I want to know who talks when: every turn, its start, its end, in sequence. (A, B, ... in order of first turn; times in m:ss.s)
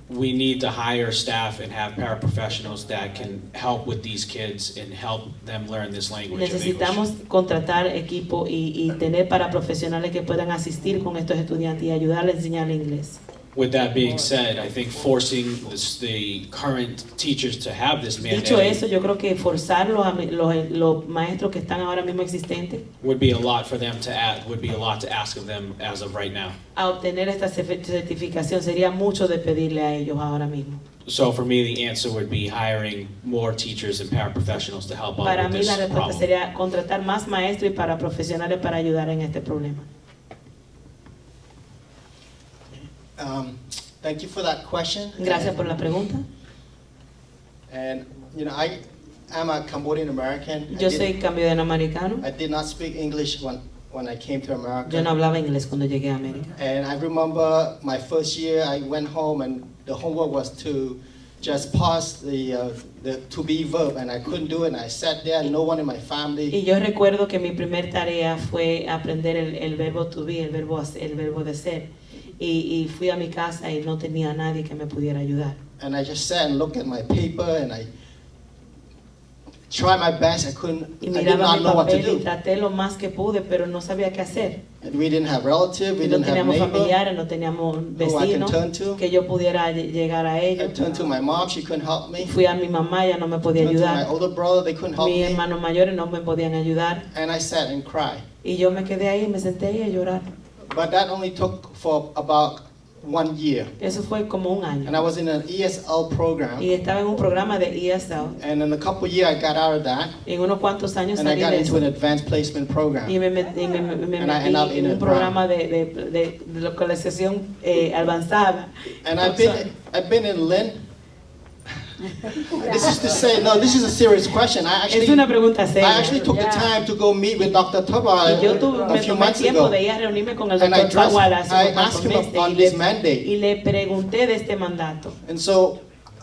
0:00.1-0:07.0 A
0:06.3-0:13.2 B
0:13.5-0:18.8 A
0:18.2-0:22.8 B
0:23.0-0:26.6 A
0:26.8-0:30.8 B
0:31.1-0:36.3 A
0:35.2-0:39.9 B
0:42.7-0:45.6 C
0:45.2-0:46.2 B
0:47.7-0:51.1 C
0:50.7-0:52.2 B
0:52.2-0:55.1 C
0:54.9-0:56.5 B
0:56.6-1:06.6 C
1:06.5-1:11.9 B
1:12.4-1:15.6 B
1:15.8-1:17.9 C
1:19.7-1:22.2 C
1:21.0-1:24.6 B
1:24.8-1:27.0 C
1:26.0-1:30.8 B
1:28.0-1:29.0 C
1:30.6-1:32.3 C
1:32.2-1:34.0 B
1:33.6-1:35.4 C
1:35.0-1:37.0 B
1:37.1-1:38.2 C
1:38.4-1:40.3 B
1:40.7-1:43.7 C
1:43.8-1:45.0 B
1:44.8-1:46.7 C
1:46.6-1:48.4 B
1:48.4-1:50.2 C
1:50.2-1:51.8 B
1:51.2-1:53.2 C
1:53.0-1:59.6 B
1:54.2-1:55.4 C
1:59.0-2:00.8 C
2:02.4-2:09.8 C
2:04.9-2:06.6 B
2:08.2-2:15.2 B
2:10.6-2:13.2 C
2:15.2-2:15.8 C